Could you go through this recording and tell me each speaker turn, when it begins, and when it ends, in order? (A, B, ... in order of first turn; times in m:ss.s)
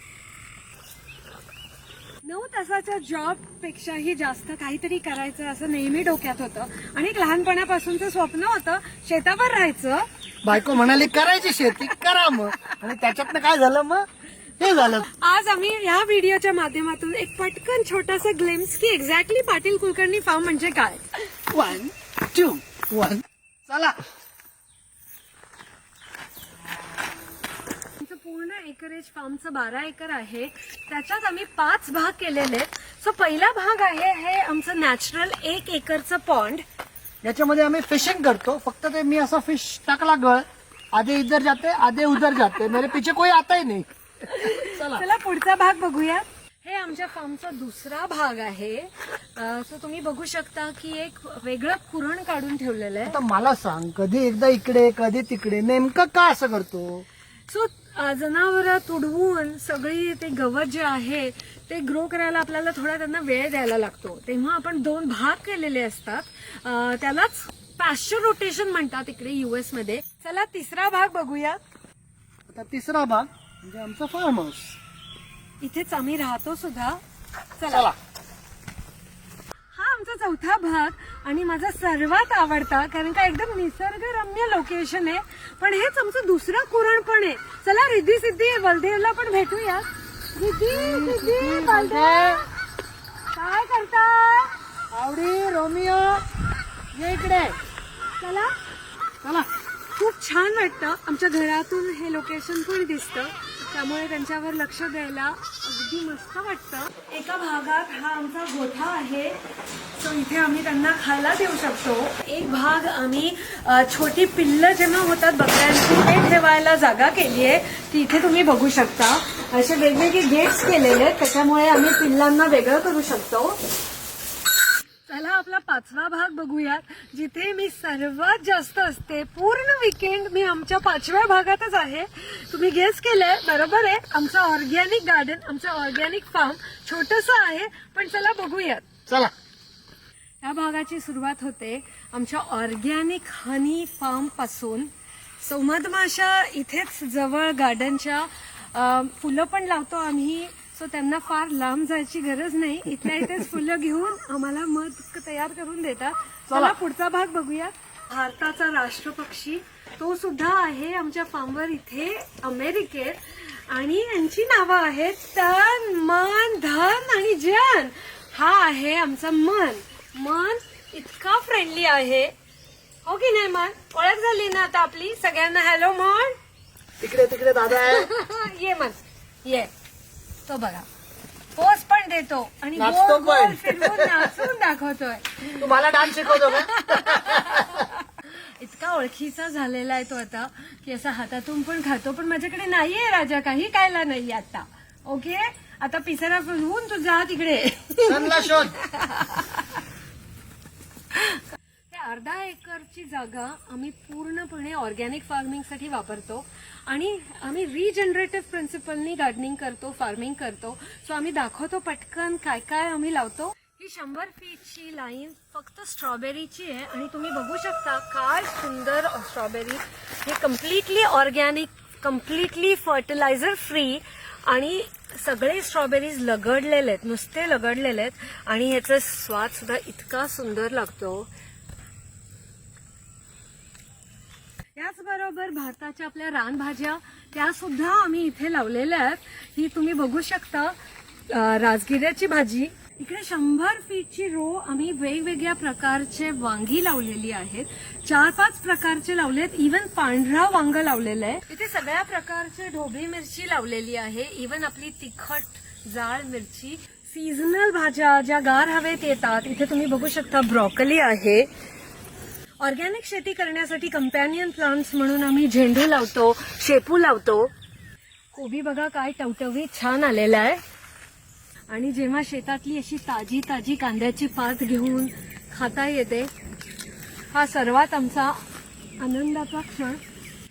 0:02.2-0:10.1 A
0:10.4-0:14.1 B
0:14.6-0:15.1 B
0:14.8-0:21.2 A
0:21.5-0:24.0 B
0:28.0-0:36.6 A
0:37.2-0:45.0 B
0:44.3-0:53.2 A
0:53.1-0:57.0 B
0:57.5-1:11.6 A
1:12.5-1:14.8 B
1:15.6-1:17.0 A
1:17.6-1:17.9 A
1:19.7-1:32.5 A
1:30.7-1:32.4 B
1:33.3-1:34.6 A
1:34.9-1:36.2 B
1:36.9-1:37.6 B
1:38.2-1:38.5 A
1:39.2-1:39.5 B
1:39.9-1:49.4 A
1:49.9-2:03.6 A
2:05.0-2:18.9 A
2:19.1-2:19.3 B
2:20.4-2:24.9 A
2:25.4-2:52.3 A
2:36.5-2:36.8 B
2:53.0-2:56.4 A
2:57.0-2:58.1 B
2:57.7-2:59.7 A
3:00.5-3:00.8 A
3:01.5-3:19.8 A
3:02.8-3:04.4 B
3:05.5-3:07.9 B
3:18.0-3:18.8 B
3:21.1-3:21.4 A
3:21.9-3:51.3 A
3:54.7-4:00.8 A
4:01.3-4:21.5 A
4:22.6-4:27.5 A
4:28.3-4:30.6 A
4:31.7-4:36.3 A
4:37.3-4:38.4 A
4:39.0-4:40.0 A